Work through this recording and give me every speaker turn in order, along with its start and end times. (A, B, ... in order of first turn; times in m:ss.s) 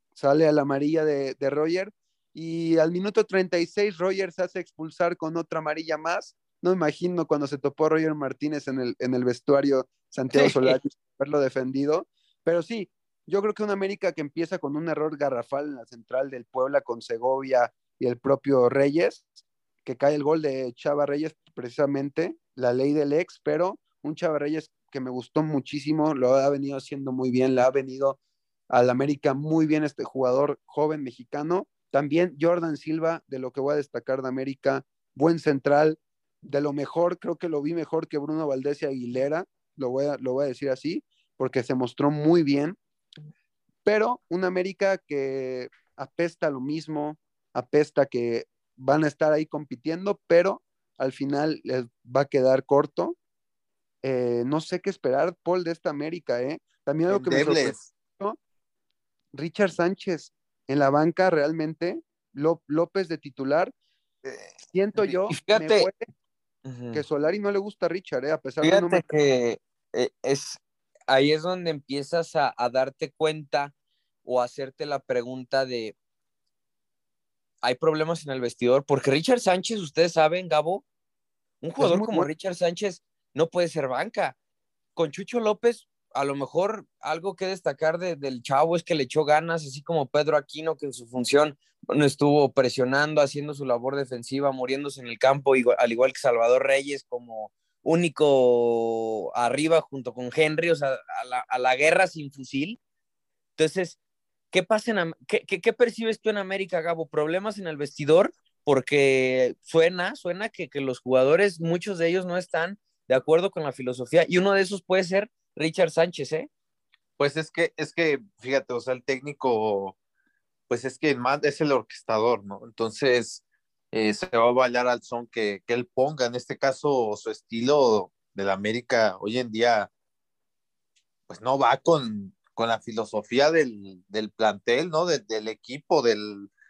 0:00.2-0:28.2 A
0:10.3-0:10.8 B
0:28.7-0:42.8 A
0:43.8-0:53.2 A
0:54.0-0:58.4 A
0:57.1-0:57.9 C
0:59.3-1:03.7 A
1:04.2-1:04.5 B
1:04.7-1:06.1 A
1:05.1-1:05.9 B
1:06.6-1:07.0 B
1:06.9-1:09.0 A
1:08.6-1:13.7 B
1:14.2-1:16.0 B
1:17.6-1:20.8 B
1:21.6-1:24.4 B
1:21.8-1:22.3 A
1:25.0-1:42.8 B
1:43.6-1:44.0 B
1:44.5-1:56.5 B
1:57.2-2:00.0 C
2:00.7-2:09.9 C
2:11.3-2:16.5 C